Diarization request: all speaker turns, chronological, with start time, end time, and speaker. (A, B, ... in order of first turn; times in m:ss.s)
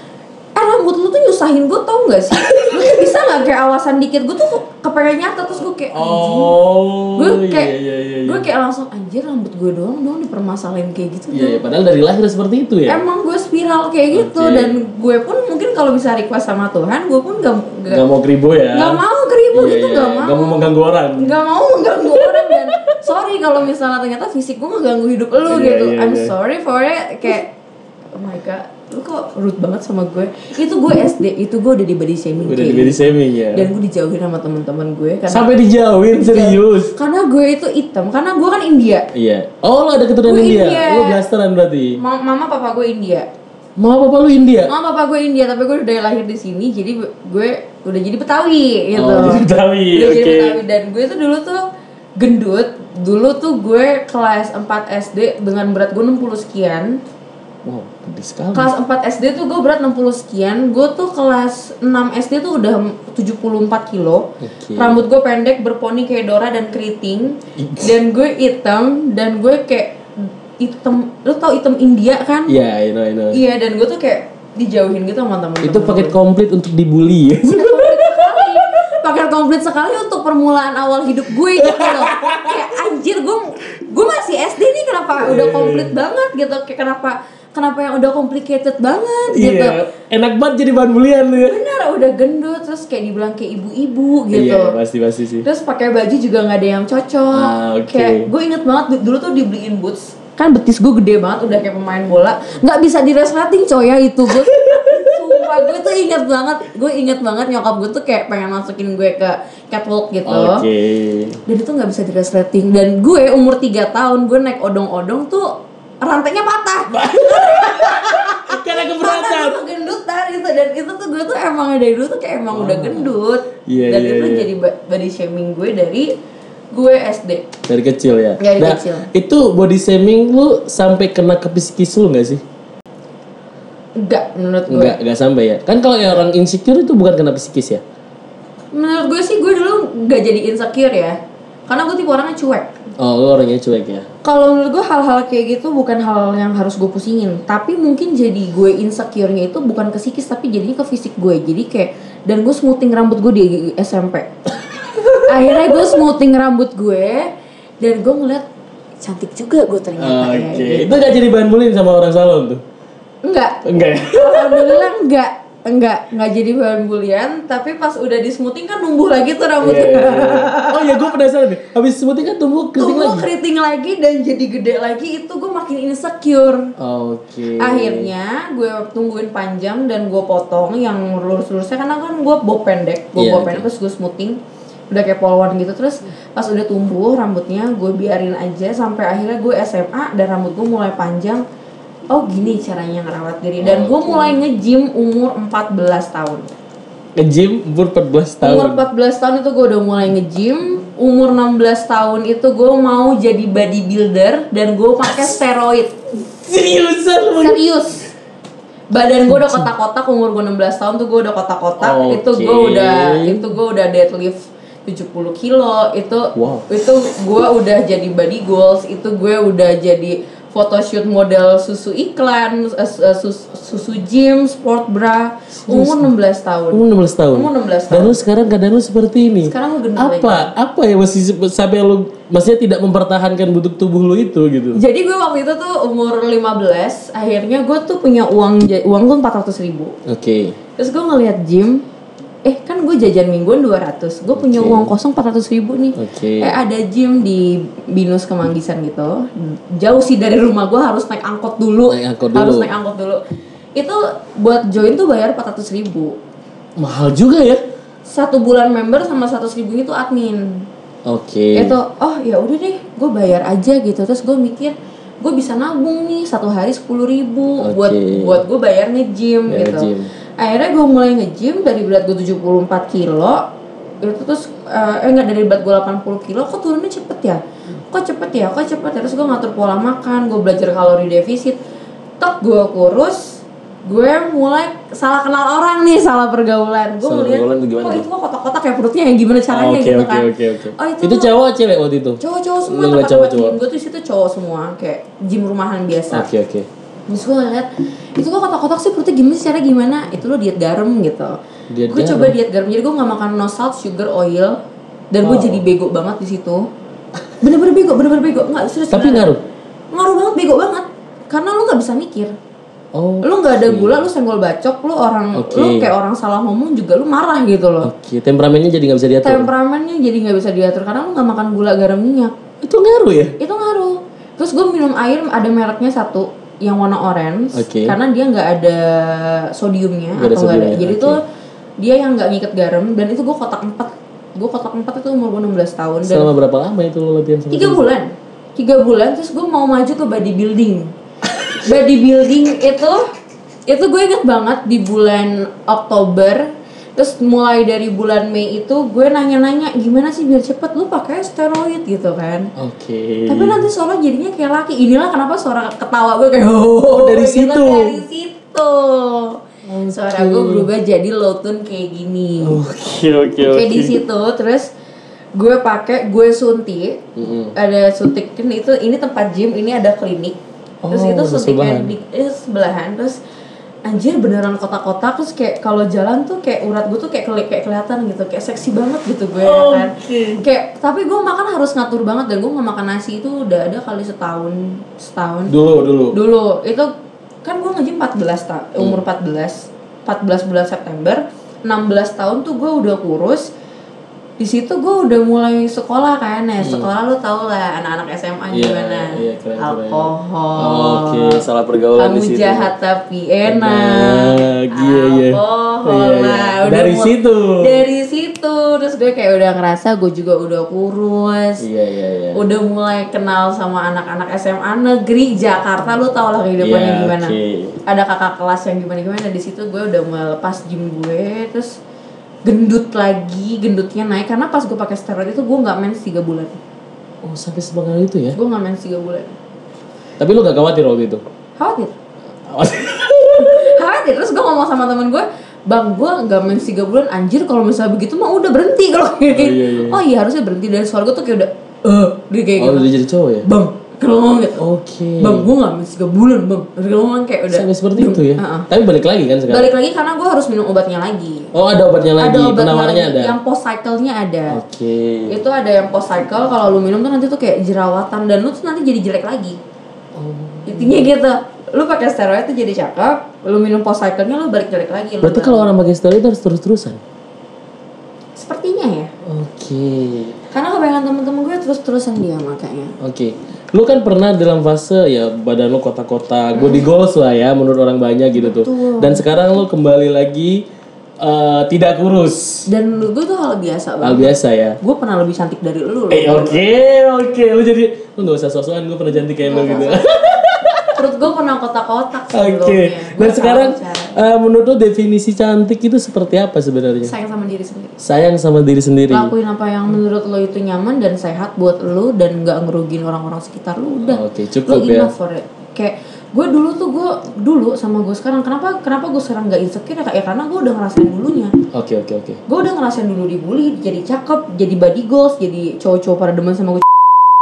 0:00.6-0:06.5 A
0:02.4-0:03.1 B
0:05.9-0:08.5 B
0:07.2-0:11.6 A
0:11.3-0:13.0 B
0:12.9-0:18.0 A
0:14.1-0:14.8 B
0:17.9-0:21.4 B
0:18.7-0:27.5 A
0:22.0-0:23.0 B
0:25.4-0:26.4 B
0:28.1-0:33.0 A
0:32.4-0:33.7 B
0:33.5-0:35.5 A
0:35.3-0:36.9 B
0:36.2-0:39.1 A
0:39.1-0:42.0 B
0:40.2-0:41.3 A
0:42.0-0:43.3 A
0:43.8-0:44.7 B
0:44.7-0:51.6 A
0:48.9-0:50.6 B
0:52.2-0:57.0 A
0:57.6-0:58.7 B
0:58.5-1:12.6 A
1:04.4-1:05.0 B
1:07.6-1:08.0 B
1:12.5-1:13.4 B
1:13.3-1:16.2 A
1:15.6-1:19.0 B
1:17.5-1:29.8 A
1:21.5-1:22.7 B
1:25.2-1:25.9 B
1:29.3-1:31.6 B
1:31.4-1:34.8 A
1:34.3-1:35.5 B
1:35.4-1:50.6 A
1:37.3-1:38.3 B
1:44.3-1:45.8 B
1:50.2-1:51.4 B
1:51.5-2:06.1 A
1:56.9-1:59.6 B
2:02.5-2:03.1 B
2:03.6-2:04.5 B
2:06.7-2:07.5 A
2:07.7-2:12.4 B
2:08.4-2:09.1 A
2:14.0-2:15.0 A
2:14.7-2:17.8 B
2:18.7-2:22.7 A
2:23.0-2:24.1 B
2:24.2-2:34.3 A
2:34.6-2:36.0 B
2:35.2-2:38.4 A
2:39.0-2:41.2 A
2:40.0-2:42.6 B
2:43.2-2:51.1 A
2:43.6-2:44.9 B
2:49.6-2:53.3 B
2:52.8-2:56.7 A
2:56.8-2:58.1 B
2:57.6-3:04.4 A
3:03.2-3:03.7 B
3:04.9-3:11.4 A
3:12.1-3:16.5 A
3:13.6-3:14.4 B
3:17.2-3:18.8 B
3:18.4-3:26.0 A
3:26.4-3:27.6 B
3:27.4-3:28.1 A
3:28.9-3:48.2 A
3:29.3-3:29.7 B
3:31.8-3:33.4 B
3:36.4-3:36.7 B
3:45.5-3:46.1 B
3:46.7-3:54.8 B
3:49.4-3:50.5 A
3:54.7-4:00.0 A
4:00.0-4:00.6 B
4:00.8-4:01.8 A
4:02.4-4:13.2 A
4:04.3-4:04.9 B
4:06.0-4:06.6 B
4:11.9-4:12.7 B
4:13.8-4:16.2 A
4:16.8-4:17.6 B
4:18.0-4:20.7 A
4:21.0-4:21.8 B
4:21.5-4:33.5 A
4:27.6-4:28.4 B
4:29.5-4:30.1 B
4:34.0-4:41.6 A
4:42.2-4:51.3 A
4:47.0-4:48.0 B
4:49.5-4:53.6 B
4:52.2-4:56.3 A
4:56.1-4:56.7 B
4:57.1-5:01.4 A
5:01.7-5:02.4 B
5:01.9-5:04.6 A
5:05.1-5:06.7 A
5:05.2-5:05.7 B
5:07.4-5:09.3 A
5:08.9-5:09.4 B
5:09.9-5:12.4 A
5:12.9-5:14.0 B
5:13.2-5:17.9 A
5:15.3-5:15.9 B
5:17.8-5:19.5 B
5:19.2-5:22.3 A
5:22.6-5:23.4 B
5:23.4-5:31.2 A
5:27.5-5:28.0 B
5:30.1-5:31.2 B
5:31.8-5:36.3 A
5:36.0-5:37.9 B
5:37.5-5:40.9 A
5:41.5-5:43.0 A
5:43.7-5:52.5 A
5:52.6-5:53.7 B
5:53.3-6:02.6 A
5:56.9-5:58.0 B
5:59.6-6:00.7 B
6:02.4-6:04.0 B
6:03.4-6:04.7 A
6:05.4-6:07.0 A
6:07.2-6:07.5 B
6:07.5-6:10.4 A
6:10.8-6:11.9 B
6:10.9-6:13.2 A
6:13.8-6:25.5 A
6:19.4-6:20.4 B
6:25.5-6:26.2 B
6:26.1-6:26.9 A
6:27.4-6:33.5 A
6:34.4-6:41.4 A
6:36.6-6:36.9 B
6:38.5-6:42.7 B
6:42.0-6:51.6 A
6:43.5-6:47.8 B
6:51.6-6:52.4 B
6:52.3-7:01.8 A
6:56.6-6:57.8 B
7:02.4-7:06.6 A
7:07.2-7:08.4 B
7:08.3-7:09.4 A
7:10.2-7:11.2 B
7:11.6-7:12.0 A
7:12.5-7:13.8 B
7:13.4-7:22.9 A
7:19.3-7:20.0 B
7:22.6-7:23.5 B
7:23.4-7:24.6 A
7:24.6-7:25.5 B
7:25.2-7:28.7 A
7:27.5-7:29.7 B
7:29.5-7:31.5 A
7:31.5-7:33.4 B
7:32.2-7:34.6 A
7:34.5-7:35.4 B
7:35.3-7:39.6 A
7:40.1-7:41.0 B
7:40.6-7:45.7 A
7:45.2-7:47.0 B
7:48.4-7:49.1 A
7:49.2-7:50.4 B
7:50.5-7:53.0 A
7:53.0-8:00.6 B
7:56.6-7:56.8 A
7:58.4-7:59.2 A
8:01.2-8:02.7 B
8:02.7-8:06.6 A
8:04.0-8:04.8 B
8:06.1-8:11.0 B
8:09.4-8:10.3 A
8:10.9-8:14.2 A
8:12.3-8:17.1 B
8:17.0-8:18.0 A
8:18.0-8:19.3 B
8:19.1-8:31.6 A
8:24.0-8:25.1 B
8:31.7-8:32.4 B
8:32.5-8:37.0 A